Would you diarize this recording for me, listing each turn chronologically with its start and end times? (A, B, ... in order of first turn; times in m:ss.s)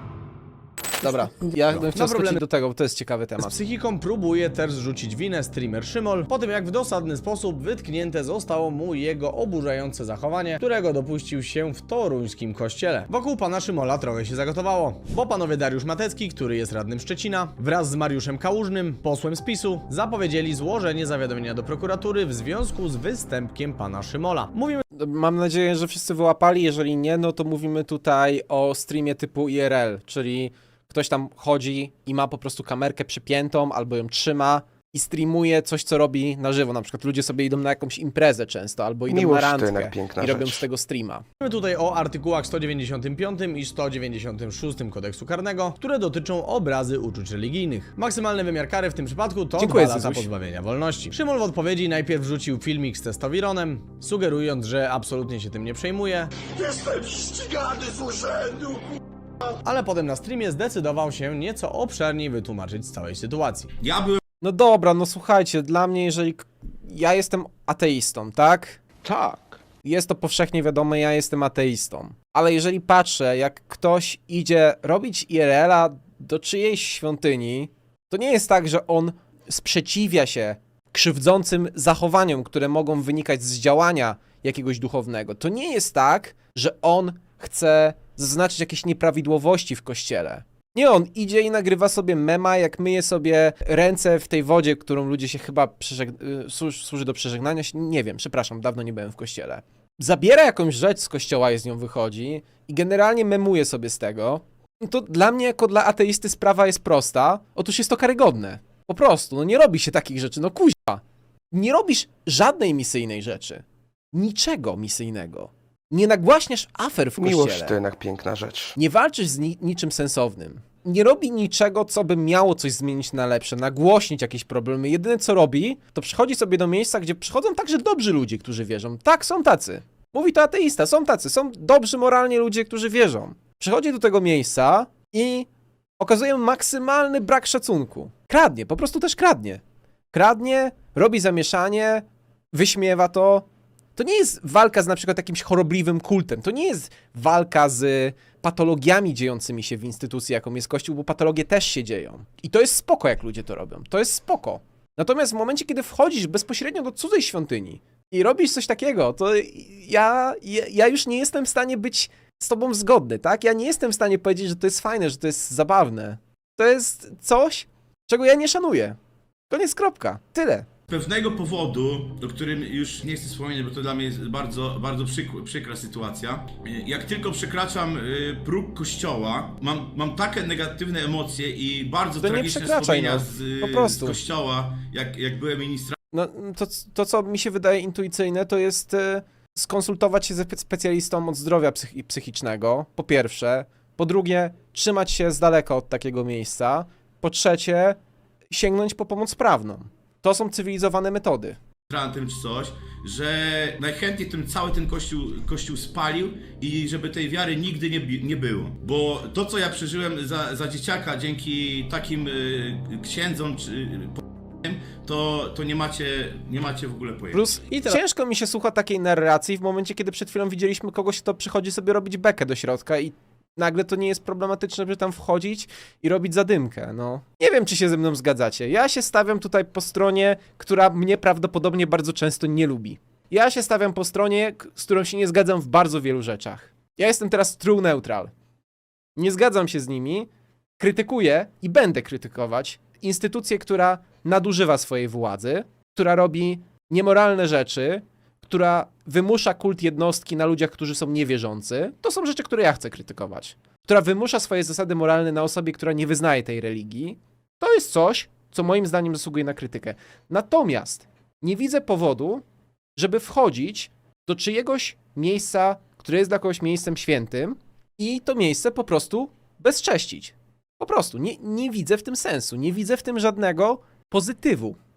0:01.0-0:03.5 A
0:01.7-0:02.4 B
0:03.4-0:24.8 B
0:25.0-0:41.2 A
0:39.1-0:40.7 C
0:41.4-0:56.3 B
0:49.6-0:50.3 A
0:56.7-0:58.5 D
0:59.6-1:03.7 B
1:03.8-1:04.2 D
1:04.4-1:53.6 A
1:54.1-1:57.8 A
1:57.2-1:58.8 C
1:58.8-2:15.5 A
2:16.0-2:19.6 A
2:20.1-2:23.4 A
2:24.0-2:49.0 A
2:49.5-2:50.7 A
2:50.9-3:06.0 D
3:02.2-3:04.2 A
3:06.1-3:18.0 A
3:18.5-3:21.6 A
3:21.9-3:37.5 D
3:37.3-3:58.3 A
3:37.7-3:38.0 B
3:59.2-4:22.4 A
4:23.0-4:34.8 A